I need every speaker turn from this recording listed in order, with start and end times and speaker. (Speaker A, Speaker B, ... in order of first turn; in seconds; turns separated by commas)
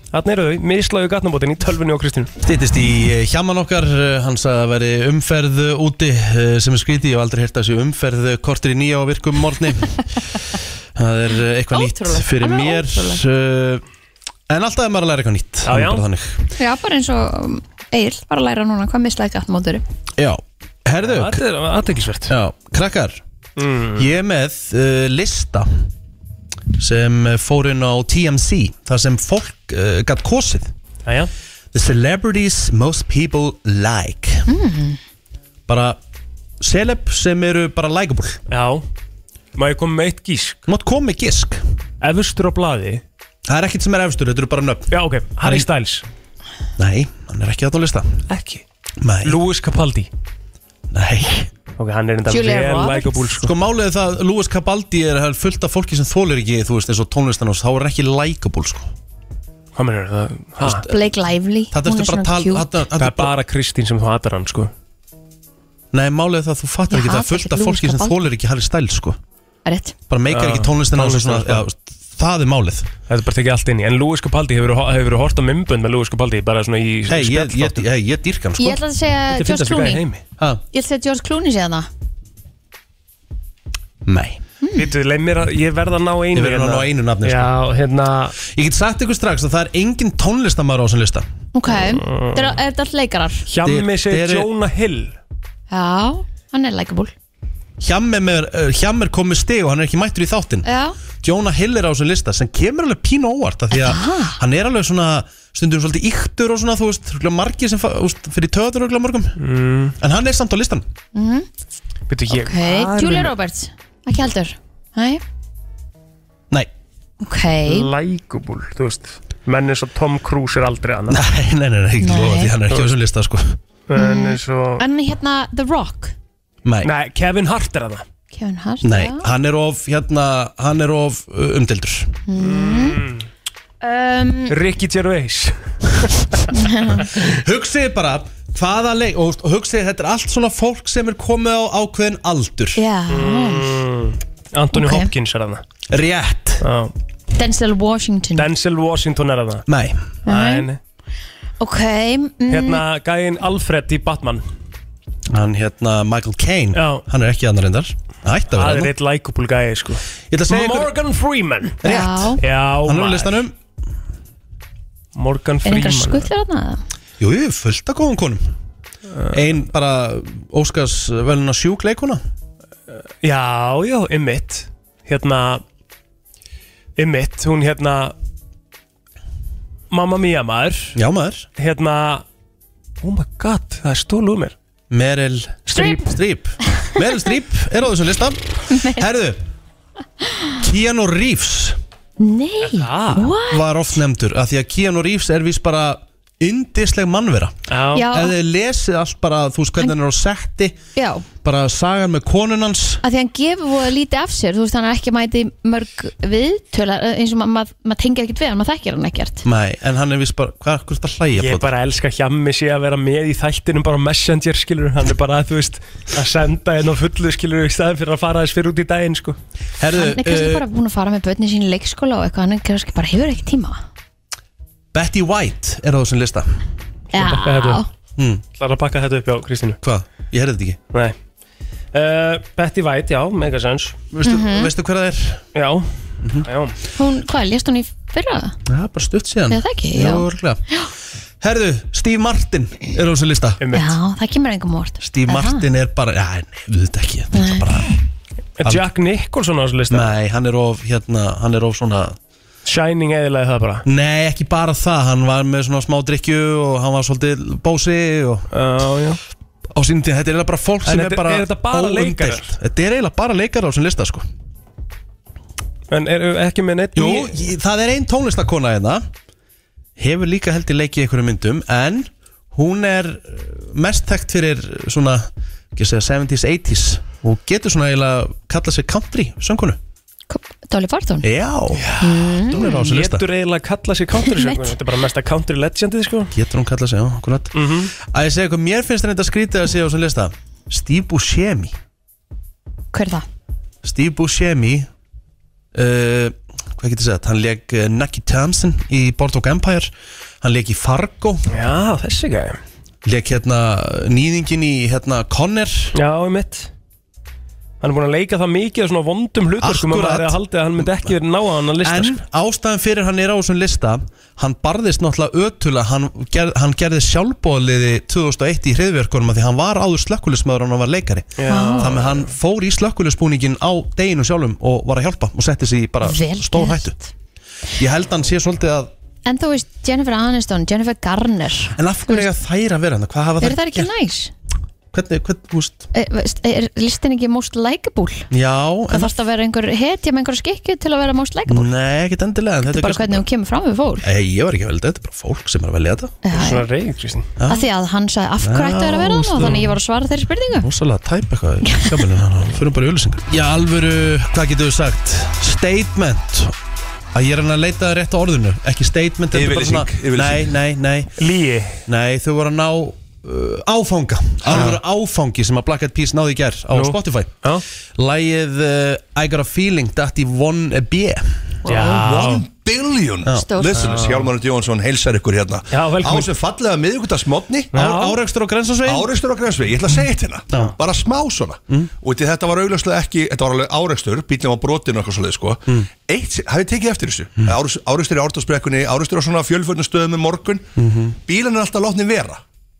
Speaker A: 0.1-2.3, Speaker B: 2.4-10.1, Speaker B: 10.9-13.8, Speaker C: 11.7-13.2, Speaker B: 14.5-16.5, Speaker A: 15.6-16.0, Speaker C: 16.6-19.8, Speaker B: 20.2-21.4, Speaker A: 21.0-22.3, Speaker B: 22.3-23.2, Speaker A: 23.6-24.1, Speaker B: 23.9-25.7, Speaker B: 26.7-30.7, Speaker A: 31.1-31.3, Speaker B: 31.7-34.5, Speaker C: 34.5-35.0, Speaker B: 35.7-36.0, Speaker B: 36.6-38.4, Speaker A: 38.5-38.8, Speaker A: 39.5-40.6, Speaker B: 40.7-41.6, Speaker A: 42.0-43.0, Speaker B: 43.5-45.7, Speaker A: 44.9-46.0, Speaker B: 46.8-48.2, Speaker A: 48.3-48.6, Speaker B: 49.0-49.4, Speaker A: 49.2-50.1, Speaker B: 50.9-51.5, Speaker A: 51.8-53.5, Speaker C: 52.3-53.3, Speaker B: 53.4-58.9, Speaker A: 59.8-60.9, Speaker B: 60.6-60.9, Speaker C: 60.9-62.7, Speaker B: 61.7-63.3, Speaker A: 63.0-64.7, Speaker B: 65.9-69.2, Speaker C: 66.9-68.2, Speaker C: 69.6-69.9, Speaker B: 70.1-72.9, Speaker A: 70.3-71.6, Speaker A: 73.1-77.8, Speaker B: 77.1-78.8, Speaker C: 78.6-80.0, Speaker A: 79.3-80.2, Speaker C: 80.7-81.9, Speaker B: 84.0-84.4, Speaker C: 84.6-84.9, Speaker A: 84.8-88.4, Speaker B: 86.3-87.5, Speaker B: 88.4-91.2, Speaker C: 91.5-93.4, Speaker A: 91.7-92.6, Speaker A: 93.5-95.2, Speaker B: 93.6-94.5, Speaker C: 95.7-97.1, Speaker B: 97.8-100.7, Speaker C: 100.6-101.0, Speaker B: 101.2-109.4, Speaker C: 103.7-104.4, Speaker A: 109.4-110.0, Speaker B: 110.0-110.8, Speaker C: 111.1-111.5, Speaker A: 112.1-113.3, Speaker C: 112.3-115.2, Speaker C: 117.2-117.9, Speaker A: 117.7-121.2, Speaker B: 121.1-123.6, Speaker C: 122.0-122.5, Speaker A: 123.9-124.8, Speaker C: 123.9-126.1, Speaker B: 126.6-126.9, Speaker A: 126.8-128.0, Speaker C: 128.3-129.3, Speaker B: 128.8-132.2, Speaker C: 132.3-133.0, Speaker A: 132.4-133.2, Speaker C: 133.8-134.6, Speaker A: 134.5-136.4, Speaker C: 136.5-137.0, Speaker B: 136.9-142.8, Speaker C: 142.8-143.7, Speaker A: 143.1-145.6, Speaker C: 144.7-145.1, Speaker B: 145.9-146.6, Speaker A: 146.6-146.9, Speaker C: 147.3-148.5, Speaker A: 148.3-149.7, Speaker B: 149.7-150.1, Speaker C: 150.2-150.7, Speaker A: 150.2-150.8, Speaker C: 151.6-152.8, Speaker A: 152.5-154.4, Speaker B: 155.3-158.9, Speaker A: 156.7-157.0, Speaker A: 158.5-161.8, Speaker B: 160.3-160.9, Speaker B: 161.8-163.5, Speaker C: 161.8-162.4, Speaker A: 162.4-163.4, Speaker A: 165.1-166.3, Speaker C: 165.6-166.8, Speaker B: 167.2-168.5, Speaker A: 169.1-169.4, Speaker B: 169.3-172.2, Speaker A: 173.2-175.6, Speaker A: 177.0-178.1, Speaker A: 179.9-180.9, Speaker B: 180.9-181.5, Speaker A: 181.6-182.2, Speaker A: 183.0-184.5, Speaker B: 184.9-189.4, Speaker C: 185.7-186.1, Speaker C: 188.7-189.0, Speaker B: 190.6-191.8, Speaker C: 192.2-193.7, Speaker A: 192.6-193.3, Speaker B: 193.5-200.8, Speaker A: 197.7-198.1, Speaker C: 197.9-198.3, Speaker C: 200.9-201.2, Speaker B: 201.4-203.0, Speaker C: 203.0-209.4, Speaker B: 209.4-211.7, Speaker A: 211.4-219.4, Speaker B: 219.8-220.6, Speaker C: 219.9-223.8, Speaker B: 224.9-226.6, Speaker C: 227.1-227.9, Speaker A: 227.2-227.8, Speaker B: 228.2-228.4, Speaker A: 228.6-229.8, Speaker B: 229.8-230.8, Speaker A: 231.9-234.0, Speaker B: 234.1-235.4, Speaker C: 234.2-234.7, Speaker A: 235.5-235.9, Speaker B: 236.2-236.5, Speaker A: 236.4-236.8, Speaker C: 236.9-238.5, Speaker B: 238.7-240.6, Speaker C: 239.5-240.9, Speaker B: 241.4-243.6, Speaker A: 243.6-243.9, Speaker C: 243.7-245.7, Speaker B: 245.0-247.9, Speaker C: 247.3-247.6, Speaker A: 248.6-250.1, Speaker B: 249.9-252.2, Speaker A: 252.7-253.8, Speaker B: 253.8-258.5, Speaker A: 258.5-259.2, Speaker B: 259.7-264.3, Speaker A: 260.9-262.5, Speaker A: 265.9-267.4, Speaker B: 266.9-269.0, Speaker B: 270.0-279.8, Speaker C: 280.3-281.3, Speaker B: 281.2-281.9, Speaker A: 281.8-286.3, Speaker C: 282.0-282.6, Speaker B: 282.4-283.2, Speaker C: 284.2-284.7, Speaker B: 286.3-291.7, Speaker A: 287.5-287.9, Speaker C: 292.9-293.2, Speaker B: 293.8-294.9, Speaker B: 295.7-301.5, Speaker A: 301.5-302.6, Speaker B: 303.0-305.9, Speaker A: 305.9-306.7, Speaker A: 307.8-312.2, Speaker B: 309.6-311.1, Speaker B: 311.8-326.9, Speaker A: 321.4-322.2, Speaker C: 321.5-321.9, Speaker C: 326.0-327.1, Speaker B: 327.8-328.9, Speaker C: 329.2-332.3, Speaker B: 331.8-333.9, Speaker C: 333.4-334.3, Speaker B: 334.9-335.9, Speaker C: 335.9-338.3, Speaker B: 338.3-339.1, Speaker C: 338.9-341.7, Speaker B: 341.5-343.2, Speaker C: 342.6-344.1, Speaker B: 344.0-346.1, Speaker C: 346.2-346.6, Speaker A: 346.3-347.3, Speaker B: 347.4-347.6, Speaker C: 347.5-350.7, Speaker B: 348.4-349.7, Speaker B: 350.6-356.5, Speaker B: 357.1-361.1, Speaker D: 359.3-360.5, Speaker A: 361.2-361.8, Speaker B: 361.9-367.4, Speaker D: 364.4-364.8, Speaker A: 366.7-367.6, Speaker B: 368.0-371.2, Speaker A: 371.6-372.4, Speaker D: 371.7-377.7, Speaker B: 373.2-373.5, Speaker C: 373.4-373.7, Speaker A: 373.7-374.3, Speaker A: 375.7-376.3, Speaker A: 377.7-378.2, Speaker B: 377.7-379.1, Speaker D: 378.8-390.7, Speaker B: 390.8-391.1, Speaker D: 391.2-392.4